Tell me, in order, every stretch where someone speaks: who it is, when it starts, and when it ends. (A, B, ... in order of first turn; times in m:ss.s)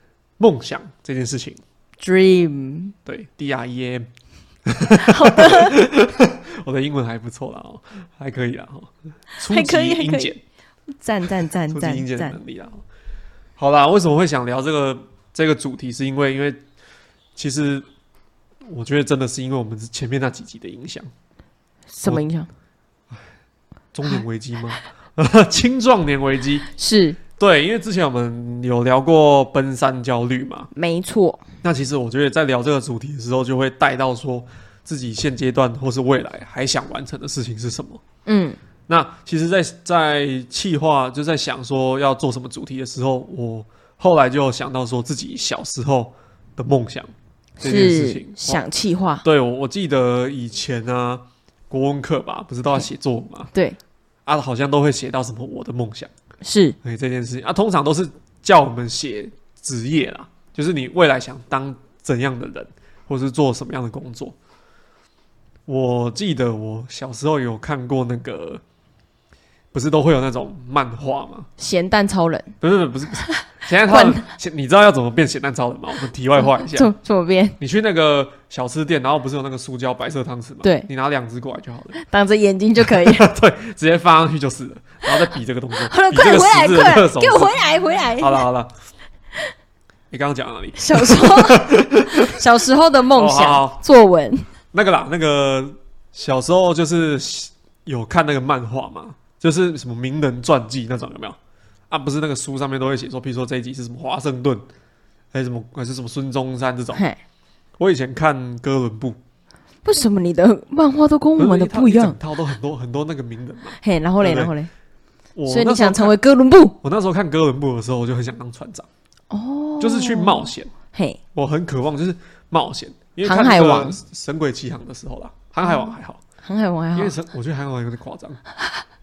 0:00.4-0:01.6 A
0:02.0-0:03.0 B
0:03.0-0:04.1 A
0:04.7-0:10.4 A
0:04.9-0:05.8 B
0:09.5-0:10.3 B
0:11.0-0:12.4 B
0:11.7-0:12.8 A
0:13.6-0:16.6 A
0:17.4-0:17.9 A
0:18.6-0:21.1 A
0:21.9-0:22.5 B
0:23.9-0:26.7 A
0:26.8-0:27.2 B
0:27.4-0:30.7 A
0:30.7-0:31.4 B
0:31.6-0:38.0 A
0:38.2-0:38.6 B
0:38.9-0:48.6 A
0:47.6-0:49.2 B
0:49.2-0:53.5 A
0:53.5-0:53.8 B
0:54.3-0:56.1 A
0:56.4-0:56.8 B
0:56.8-1:04.4 A
1:05.7-1:08.6 A
1:09.7-1:11.5 A
1:11.6-1:12.5 B
1:12.6-1:16.9 A
1:13.2-1:14.3 B
1:16.4-1:17.6 B
1:17.6-1:21.9 A
1:20.6-1:20.9 B
1:22.0-1:23.3 B
1:22.8-1:27.6 A
1:25.8-1:28.4 B
1:28.2-1:28.7 A
1:30.1-1:32.4 A
1:30.8-1:34.4 B
1:33.2-1:33.8 A
1:34.7-1:41.4 A
1:41.9-1:44.6 A
1:45.3-1:47.0 A
1:46.9-1:47.2 B
1:47.8-1:49.2 A
1:49.8-1:52.2 B
1:51.4-1:54.5 A
1:53.8-1:54.7 B
1:55.4-1:56.1 A
1:55.5-1:56.8 B
1:56.8-1:58.9 A
1:59.3-2:01.2 B
1:59.8-2:00.7 A
2:01.3-2:06.2 A
2:03.2-2:04.0 B
2:05.7-2:07.1 B
2:07.0-2:08.4 A